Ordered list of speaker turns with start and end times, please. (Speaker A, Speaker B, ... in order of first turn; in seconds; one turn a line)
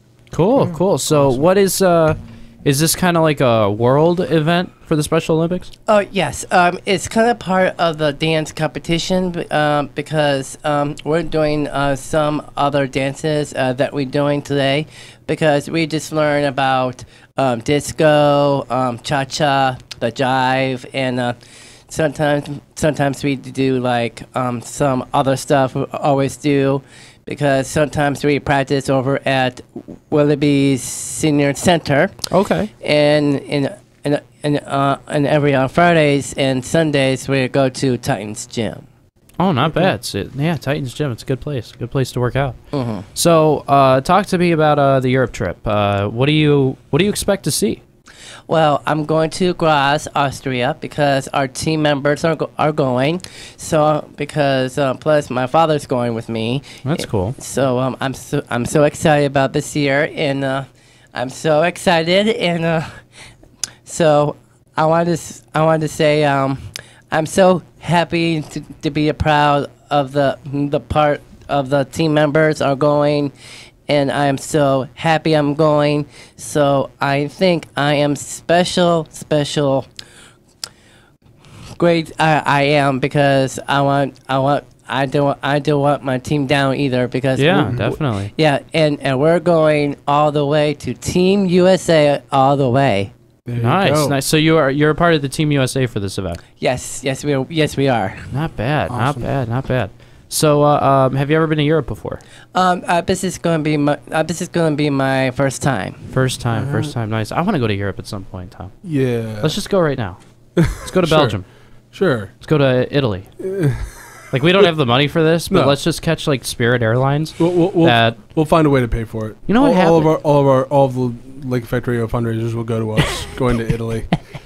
Speaker A: 0.3-5.7
Speaker B: 0.6-1.4
Speaker C: 5.9-21.4
Speaker C: 21.9-32.1
Speaker A: 32.3-32.7
Speaker C: 32.8-38.8
Speaker A: 39.4-42.6
Speaker C: 42.7-43.1
Speaker A: 43.1-47.8
Speaker C: 48.5-63.0
Speaker A: 56.9-57.4
Speaker C: 63.9-73.3
Speaker C: 73.9-79.9
Speaker C: 81.8-87.8
Speaker A: 87.4-88.3
Speaker B: 87.6-87.9
Speaker C: 88.3-93.1
Speaker B: 93.5-94.2
Speaker A: 93.6-96.4
Speaker C: 96.6-98.2
Speaker A: 98.3-102.2
Speaker B: 98.9-99.3
Speaker C: 102.5-106.0
Speaker A: 106.1-108.7
Speaker B: 106.5-106.9
Speaker B: 108.8-109.6
Speaker A: 109.4-111.5
Speaker B: 110.6-111.4
Speaker B: 111.9-112.3
Speaker A: 112.4-113.3
Speaker B: 113.4-114.7
Speaker A: 114.3-118.2
Speaker B: 115.5-115.8
Speaker B: 117.4-124.1
Speaker A: 119.5-120.1